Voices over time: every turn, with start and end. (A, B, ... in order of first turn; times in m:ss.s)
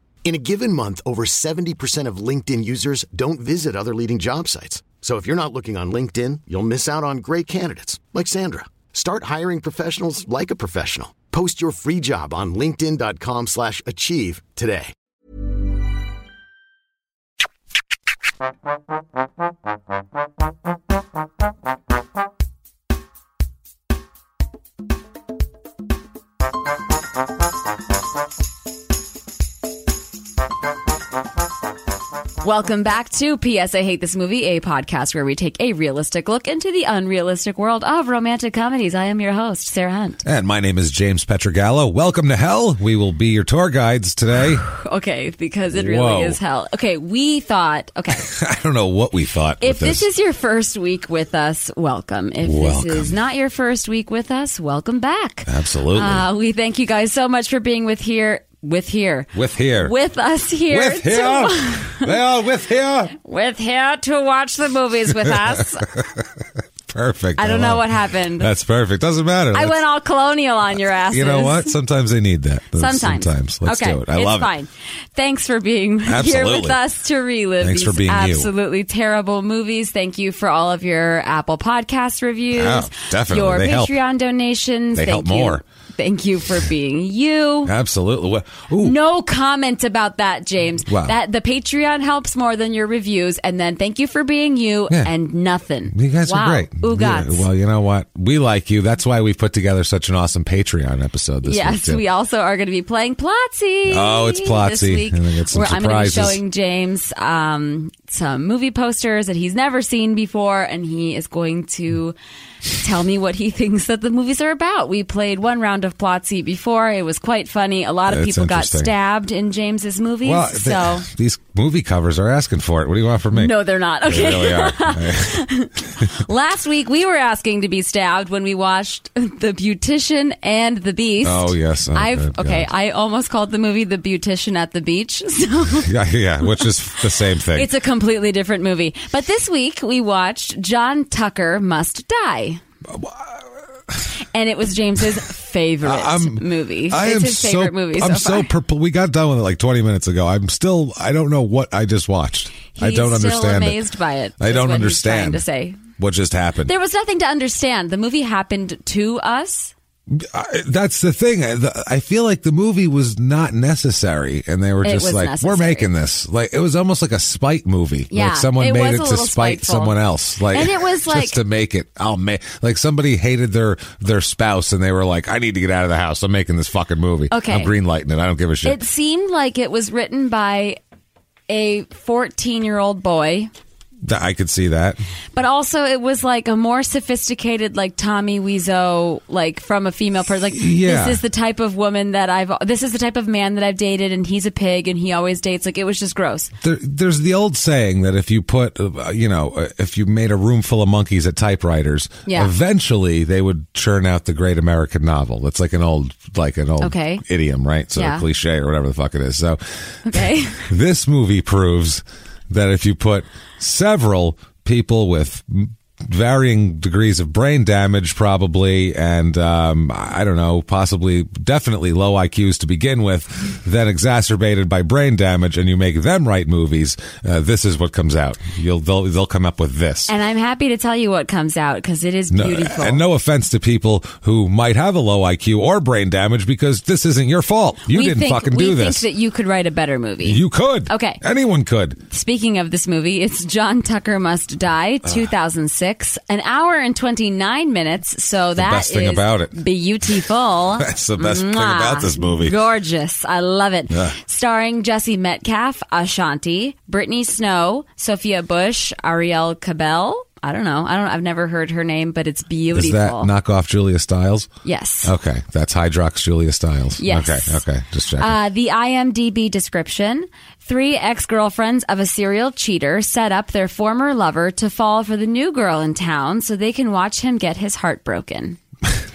0:00.2-0:14.9 A
0:32.4-0:40.2 B
0:40.2-0:44.6 C
0:44.6-0:48.3 B
0:45.7-0:46.4 C
0:48.2-0:50.1 C
0:49.6-1:02.2 B
0:52.4-0:53.2 C
0:55.5-0:56.2 C
0:59.3-0:59.9 C
1:00.7-1:03.2 C
1:03.1-1:05.9 B
1:05.2-1:09.8 C
1:07.4-1:08.5 B
1:09.5-1:11.8 B
1:11.1-1:14.5 C
1:12.8-1:27.7 B
1:16.1-1:16.8 C
1:17.6-1:18.5 C
1:22.5-1:24.0 C
1:25.0-1:25.6 C
1:27.6-1:29.0 C
1:28.8-1:37.5 B
1:30.9-1:31.2 C
1:35.9-1:42.0 C
1:41.4-1:52.2 B
1:43.9-1:46.4 C
1:52.8-2:01.1 B
1:58.1-1:58.9 C
2:00.2-2:06.1 C
2:03.3-2:15.9 B
2:11.2-2:12.7 C
2:15.8-2:17.7 C
2:16.4-2:16.7 B
2:17.3-2:22.6 B
2:22.9-2:23.4 C
2:24.3-2:28.5 B
2:25.8-2:33.8 C
2:32.8-2:35.8 B
2:34.4-2:36.7 C
2:36.7-2:39.7 B
2:40.1-2:58.8 C
2:44.8-2:45.9 B
2:48.1-2:50.0 B
2:50.5-2:51.4 B
2:57.3-2:57.7 B
2:58.6-3:00.8 B
3:01.5-3:03.5 B
3:04.0-3:05.0 C
3:05.3-3:16.5 B
3:10.6-3:11.2 C
3:16.6-3:50.1 C
3:22.3-3:22.5 B
3:26.8-3:27.2 B
3:28.0-3:28.2 B
3:30.0-3:30.7 B
3:50.1-3:53.0 B
3:52.3-3:59.1 C
3:57.9-4:01.2 B
4:00.2-4:02.0 C
4:02.1-4:23.3 B
4:08.6-4:09.6 C
4:10.8-4:12.6 C
4:13.9-4:14.2 C
4:22.7-4:24.5 C
4:24.6-4:25.1 B
4:25.0-4:28.4 C
4:27.0-4:27.6 B
4:28.2-4:38.6 B